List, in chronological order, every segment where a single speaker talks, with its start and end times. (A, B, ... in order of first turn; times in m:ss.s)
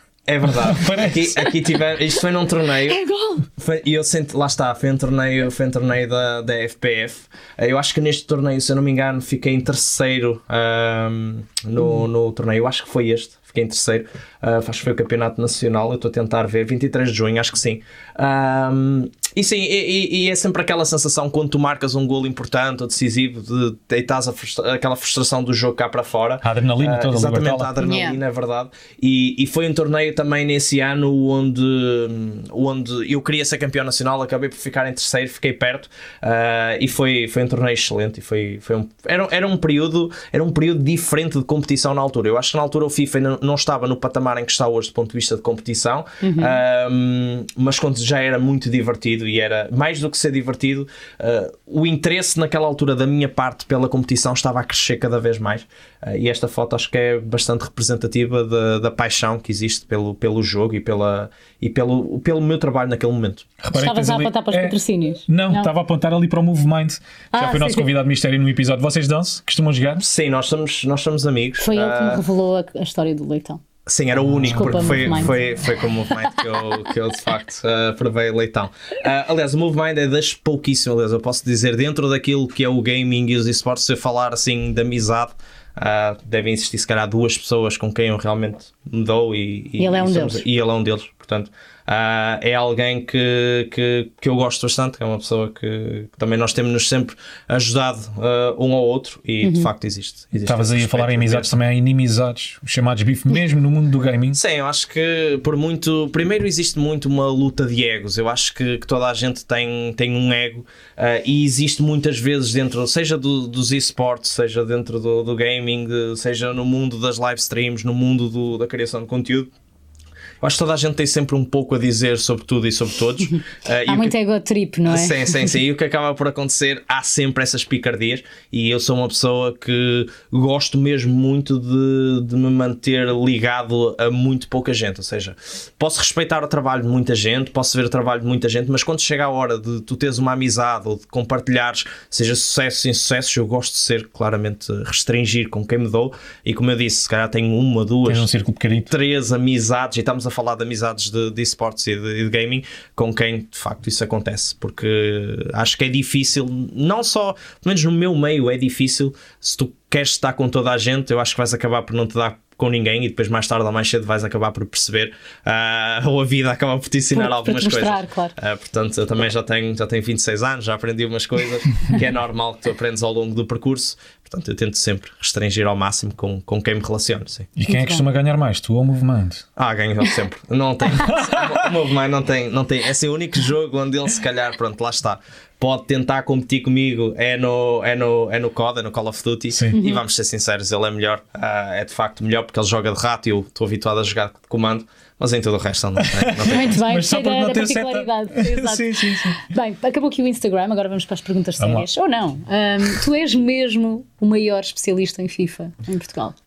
0:00.3-1:03.5 A
0:00.5-0:01.5 B
0:02.9-0:03.4 C
0:26.4-0:27.7 B
0:27.8-0:28.2 C
0:46.2-0:46.6 C
1:03.6-1:04.8 B
1:03.7-1:05.7 C
1:05.3-1:10.0 B
1:07.3-1:07.9 C
1:10.0-1:12.2 A
1:11.6-1:13.6 C
1:13.9-1:41.5 A
1:14.2-1:15.3 B
1:14.5-1:15.4 C
1:29.8-1:30.4 C
1:39.4-1:39.7 C
1:40.4-1:44.4 B
1:44.3-1:59.5 A
2:00.4-2:04.2 A
2:03.9-2:05.5 C
2:04.9-2:28.3 A
2:28.1-2:28.9 B
2:28.9-2:57.5 A
2:47.1-2:48.4 C
2:57.6-2:59.4 B
2:57.7-2:58.0 C
2:59.6-3:16.8 A
3:01.1-3:01.7 B
3:09.5-3:09.8 B
3:09.7-3:10.0 C
3:16.0-3:19.4 B
3:16.5-3:26.4 C
3:21.6-3:21.9 B